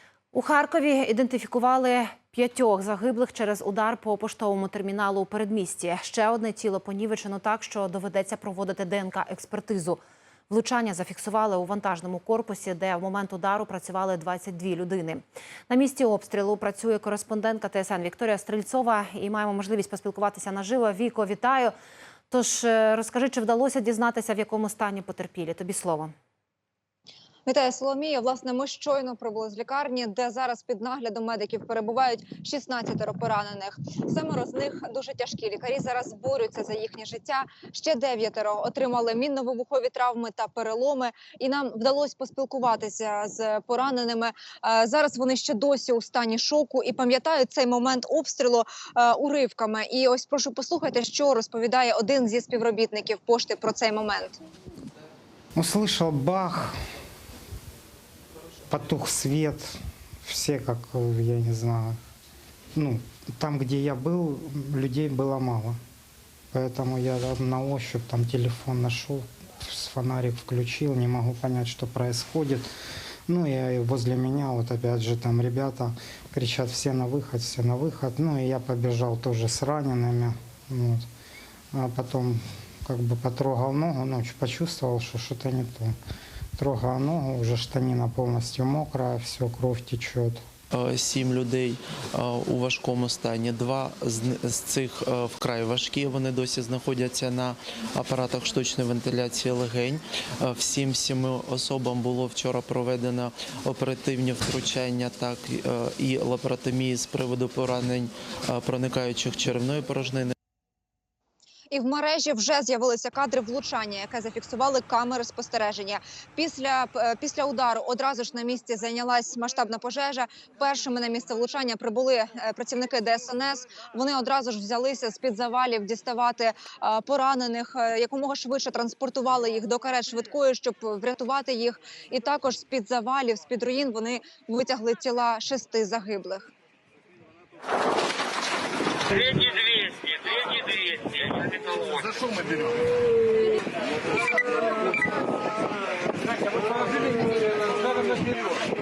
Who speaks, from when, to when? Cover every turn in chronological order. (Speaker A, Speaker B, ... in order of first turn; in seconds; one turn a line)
Speaker A: 0.3-21.7
Speaker A: 22.3-26.1
Speaker B: 27.4-54.4
Speaker C: 55.5-56.8
Speaker C: 58.7-59.7
Speaker C: 60.2-62.0
Speaker C: 62.8-65.8
Speaker C: 66.5-72.7
Speaker C: 73.3-81.0
Speaker C: 81.7-85.9
Speaker C: 86.6-90.4
Speaker D: 90.7-110.3
Speaker B: 111.7-136.5
Speaker E: 139.3-141.9